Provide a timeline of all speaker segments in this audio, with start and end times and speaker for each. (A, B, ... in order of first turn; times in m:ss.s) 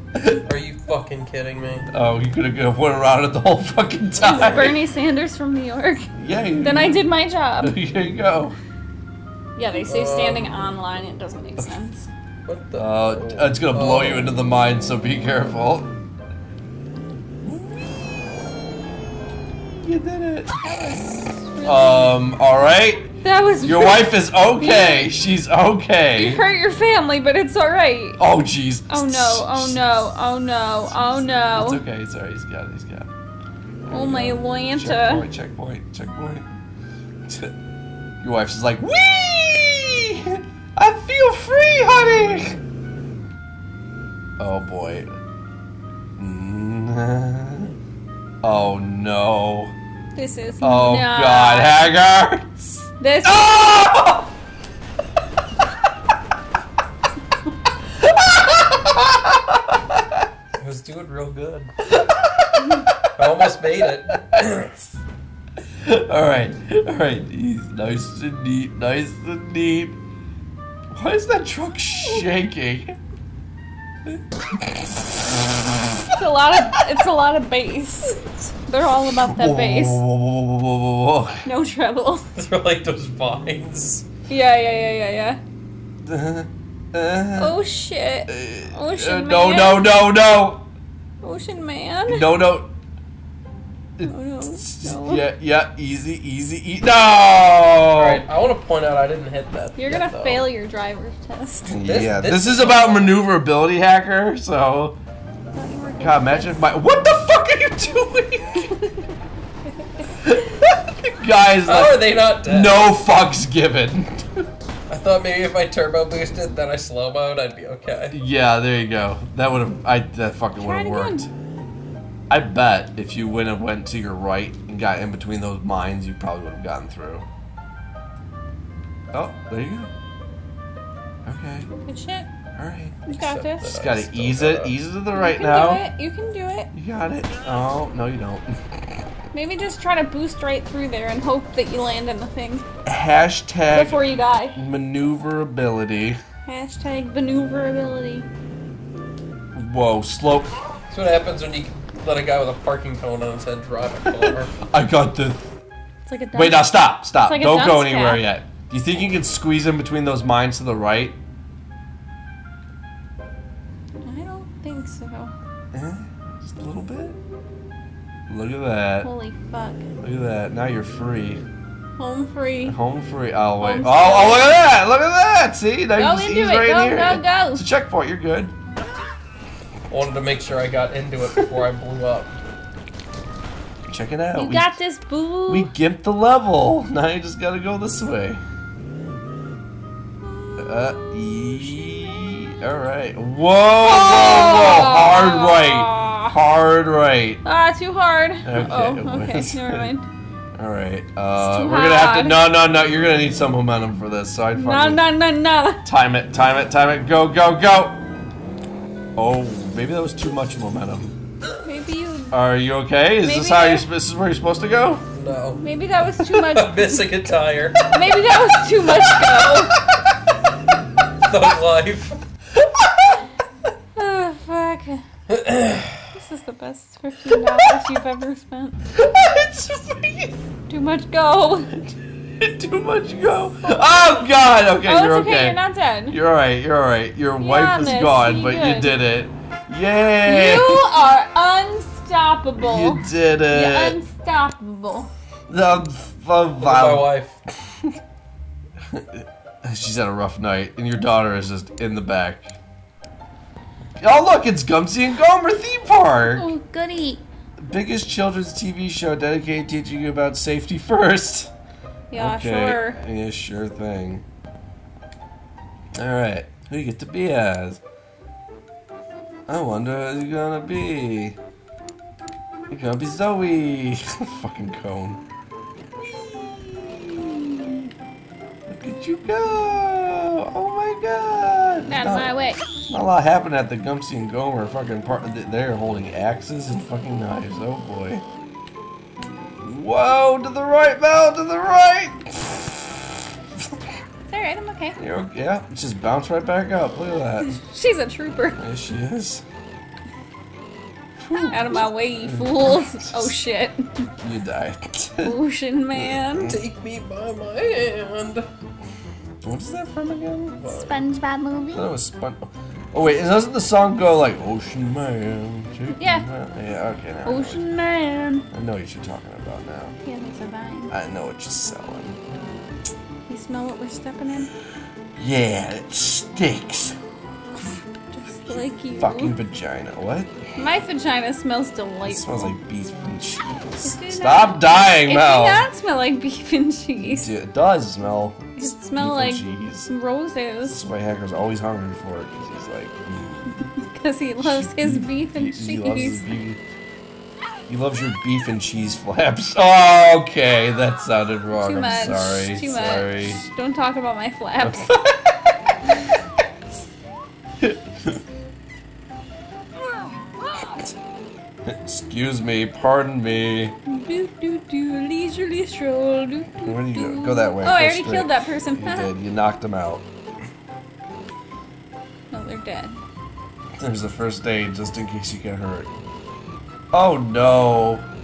0:00.1-0:00.4 A
0:00.4-0:01.9 B
0:01.9-0:04.8 A
0:04.2-0:07.8 C
0:06.2-0:07.1 A
0:07.6-0:08.6 A
0:09.6-0:12.1 C
0:09.8-0:10.5 B
0:12.4-0:14.3 B
0:12.8-0:15.9 A
0:17.4-0:18.8 A
0:19.5-0:20.5 A
0:20.6-0:22.1 C
0:21.6-0:26.4 A
0:23.2-0:25.1 C
0:26.2-0:28.2 C
0:28.2-0:30.0 A
0:28.9-0:31.8 C
0:30.9-0:33.1 A
0:33.8-0:36.5 A
0:33.9-0:35.2 C
0:37.3-0:37.5 A
0:38.2-0:42.6 A
0:44.4-0:45.2 A
0:46.2-0:47.7 A
0:48.4-0:49.7 A
0:50.1-0:51.8 C
0:50.6-0:54.3 A
0:53.0-0:53.5 C
0:57.9-1:00.3 A
1:00.6-1:01.7 B
1:01.8-1:03.3 A
1:03.2-1:04.2 B
1:04.2-1:04.8 A
1:05.8-1:10.0 A
1:10.9-1:13.0 A
1:14.1-1:16.1 A
1:16.1-1:20.0 C
1:19.2-1:21.4 A
1:21.4-1:22.3 C
1:22.3-1:24.0 B
1:24.3-1:25.4 C
1:26.0-1:27.6 A
1:27.3-1:29.9 C
1:28.3-1:30.7 A
1:31.2-1:32.3 C
1:32.1-1:32.7 A
1:34.0-1:38.2 A
1:34.0-1:35.2 C
1:37.9-1:40.5 B
1:39.8-1:41.7 C
1:41.6-1:45.0 A
1:41.8-1:43.1 B
1:45.5-1:46.7 C
1:46.0-1:48.7 A
1:48.7-1:49.0 C
1:50.2-1:54.5 A
1:51.6-1:52.8 B
1:54.9-1:58.2 B
1:58.1-2:01.3 A
2:00.6-2:01.3 C
2:02.3-2:07.2 A
2:09.1-2:09.9 A
2:11.2-2:11.7 A
2:11.8-2:12.3 C
2:12.6-2:13.0 A
2:13.0-2:13.7 C
2:13.1-2:14.8 B
2:13.7-2:15.9 A
2:15.1-2:16.7 C
2:16.7-2:19.0 A
2:19.3-2:22.6 C
2:22.8-2:26.2 A
2:23.7-2:24.6 C
2:26.4-2:28.2 C
2:29.5-2:30.5 A
2:30.9-2:34.6 B
2:34.1-2:35.4 A
2:36.0-2:36.6 C
2:36.3-2:41.2 A
2:37.2-2:38.2 C
2:44.0-2:45.3 C
2:45.7-2:47.2 A
2:48.3-2:49.1 A
2:49.0-2:49.8 C
2:50.0-2:51.4 A
2:52.0-2:52.8 C
2:52.6-2:58.5 A
2:53.6-2:54.5 C
2:56.0-2:57.6 C
2:59.9-3:02.4 B
3:03.9-3:04.7 A
3:04.3-3:05.7 C
3:05.5-3:08.4 A
3:10.6-3:17.4 A
3:13.8-3:16.4 C
3:17.4-3:20.0 C
3:18.4-3:19.9 A
3:20.5-3:25.0 A
3:21.4-3:22.4 C
3:24.5-3:25.8 C
3:25.8-3:28.0 A
3:29.2-3:31.1 A
3:31.6-3:32.4 C
3:32.3-3:35.0 A
3:33.2-3:33.8 C
3:35.1-3:35.6 B
3:35.6-3:37.0 C
3:36.2-3:37.9 B
3:37.9-3:39.8 C
3:39.0-3:39.8 B
3:41.2-3:42.2 B
3:42.6-3:43.2 A
3:44.0-3:45.0 C
3:45.3-3:46.0 B
3:46.1-3:48.8 C
3:48.9-3:50.3 A
3:50.7-3:51.8 C
3:52.4-4:00.9 A
3:54.8-3:56.2 C
3:57.4-3:59.0 C
4:00.2-4:05.1 C
4:02.6-4:04.0 A
4:05.5-4:07.1 A
4:06.6-4:07.4 B
4:07.7-4:08.0 A
4:08.9-4:12.6 A
4:14.0-4:16.5 A
4:16.4-4:17.2 C
4:17.6-4:21.5 A
4:22.1-4:23.0 C
4:22.1-4:24.2 A
4:25.9-4:27.8 A
4:29.5-4:31.4 A
4:32.7-4:35.2 A
4:36.0-4:37.9 A
4:38.7-4:42.3 A
4:41.8-4:42.9 C
4:42.9-4:48.2 A
4:49.6-4:53.8 A
4:54.3-4:55.0 C
4:55.0-4:57.6 A
4:57.4-4:58.6 C
4:58.6-4:59.4 A
5:01.2-5:03.3 A
5:01.5-5:04.1 C
5:04.2-5:05.4 A
5:05.2-5:06.5 C
5:06.0-5:06.6 A
5:06.4-5:08.4 B
5:09.4-5:10.6 A
5:10.6-5:11.0 B
5:10.7-5:11.9 C
5:11.7-5:17.6 A
5:15.9-5:16.3 C
5:17.2-5:18.5 C
5:18.5-5:20.0 A
5:20.0-5:20.9 C
5:20.9-5:22.2 A
5:23.3-5:24.5 C
5:25.2-5:27.0 A
5:28.1-5:29.3 C
5:28.9-5:30.3 A
5:30.6-5:32.5 C
5:32.1-5:35.6 A
5:33.8-5:37.3 C
5:37.0-5:39.9 A
5:38.6-5:40.8 C
5:40.7-5:43.6 A
5:43.8-5:46.2 C
5:44.4-5:46.6 A
5:47.7-5:53.4 A
5:51.6-5:54.9 C
5:54.6-5:55.7 A
5:57.6-5:58.2 A
5:59.8-6:00.8 C
6:00.6-6:00.9 A
6:01.6-6:03.7 A
6:03.9-6:09.1 C
6:06.6-6:10.0 A
6:12.3-6:13.0 C
6:13.8-6:15.9 A
6:16.9-6:18.0 A